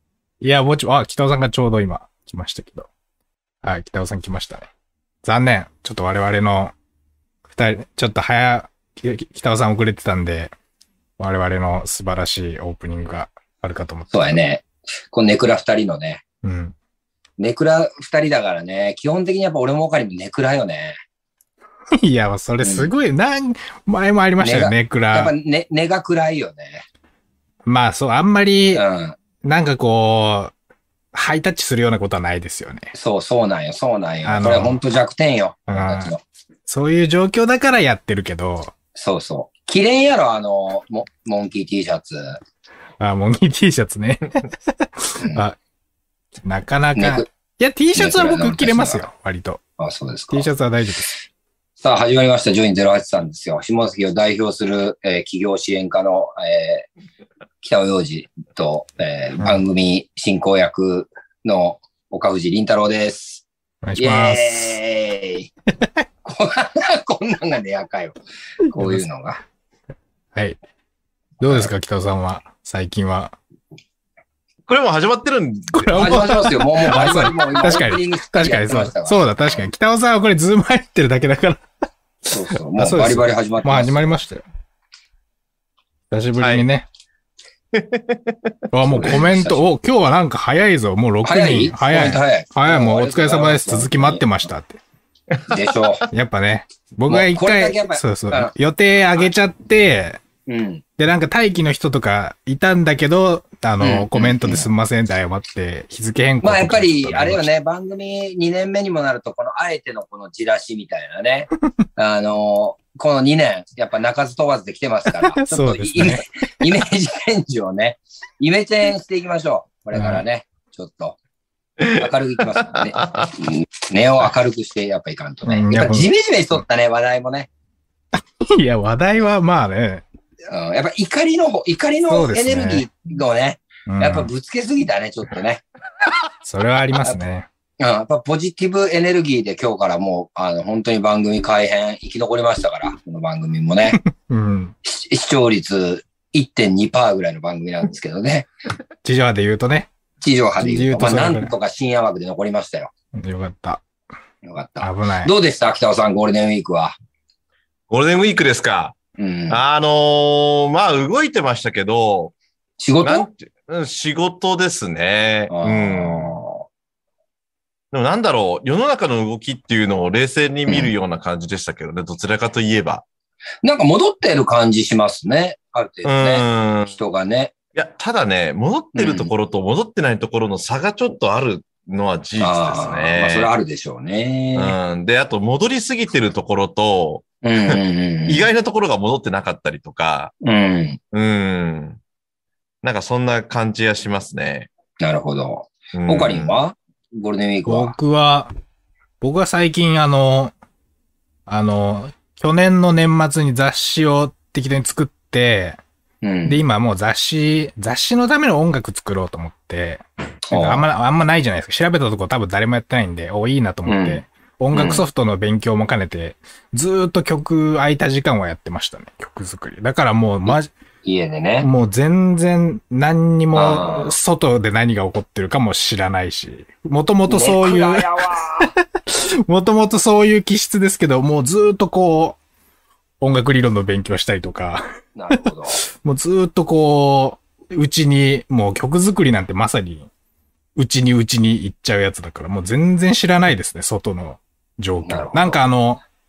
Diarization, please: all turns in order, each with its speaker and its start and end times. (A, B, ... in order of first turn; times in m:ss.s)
0:00.4-0:02.9 A
0:03.6-0:04.7 A
0:05.2-0:06.7 A
0:07.5-0:10.5 A
0:11.2-0:14.3 A
0:14.1-0:16.2 B
0:16.4-0:16.8 A
0:17.4-0:21.0 B
0:22.0-0:25.3 A
0:22.6-0:22.9 B
0:24.4-0:26.8 B
0:27.7-0:28.8 A
0:28.8-0:29.2 B
0:29.4-0:30.5 A
0:31.1-0:32.9 A
0:32.9-0:36.2 B
0:34.2-0:34.8 A
0:35.7-0:36.1 A
0:36.7-0:38.7 A
0:39.0-0:42.4 B
0:43.0-0:45.6 A
0:46.4-0:49.6 A
0:47.0-0:47.3 B
0:48.0-0:49.0 B
0:49.8-0:50.5 B
0:50.3-0:51.1 A
0:51.8-0:56.9 B
0:57.6-1:03.4 B
1:03.8-1:04.8 A
1:04.0-1:05.5 B
1:06.2-1:08.2 B
1:08.7-1:09.4 B
1:08.8-1:09.0 A
1:11.4-1:13.4 A
1:11.4-1:11.7 B
1:14.7-1:16.3 C
1:15.7-1:21.6 A
1:15.9-1:19.6 B
1:22.3-1:24.1 B
1:22.8-1:24.4 A
1:26.1-1:26.9 A
1:26.4-1:26.6 C
1:27.7-1:28.5 C
1:28.7-1:34.8 A
1:28.9-1:29.6 B
1:31.2-1:34.3 B
1:35.3-1:35.7 C
1:35.5-1:36.1 B
1:36.1-1:40.2 A
1:37.1-1:38.5 B
1:40.5-1:40.8 B
1:41.0-1:47.5 A
1:43.8-1:44.7 B
1:46.4-2:01.2 B
1:55.3-1:56.6 A
1:59.9-2:00.2 A
2:01.8-2:03.3 C
2:01.9-2:07.5 B
2:05.5-2:06.1 A
2:08.2-2:10.0 A
2:10.5-2:15.6 B
2:12.1-2:12.9 A
2:13.9-2:14.3 A
2:16.4-2:17.5 A
2:17.8-2:24.0 B
2:23.9-2:24.7 A
2:24.8-2:28.5 B
2:29.0-2:29.9 A
2:30.2-2:32.9 B
2:30.6-2:31.5 A
2:33.2-2:33.8 A
2:34.4-2:37.0 B
2:34.8-2:35.3 A
2:37.9-2:39.0 C
2:39.2-2:39.6 B
2:39.5-2:42.4 C
2:42.8-2:43.3 B
2:43.0-2:46.4 C
2:45.5-2:46.6 B
2:47.9-2:53.0 C
2:50.7-2:50.9 B
2:53.6-2:57.5 B
2:56.0-2:56.9 C
2:57.8-3:03.5 C
2:59.0-2:59.3 B
3:02.4-3:04.8 B
3:04.6-3:10.3 C
3:07.4-3:08.4 B
3:10.4-3:11.0 B
3:11.1-3:12.0 C
3:12.8-3:14.7 C
3:15.0-3:17.9 B
3:15.9-3:16.6 C
3:17.7-3:18.5 A
3:19.2-3:20.5 A
3:21.5-3:25.8 A
3:26.2-3:26.6 B
3:26.5-3:40.7 A
3:30.5-3:30.8 B
3:33.9-3:35.0 B
3:40.5-3:41.7 B
3:41.6-3:48.1 A
3:43.6-3:44.2 B
3:47.3-3:48.7 B
3:48.6-3:52.4 A
3:53.2-3:54.8 A
3:55.2-3:55.8 B
3:55.9-4:00.1 A
4:00.8-4:06.0 A
4:05.0-4:05.6 B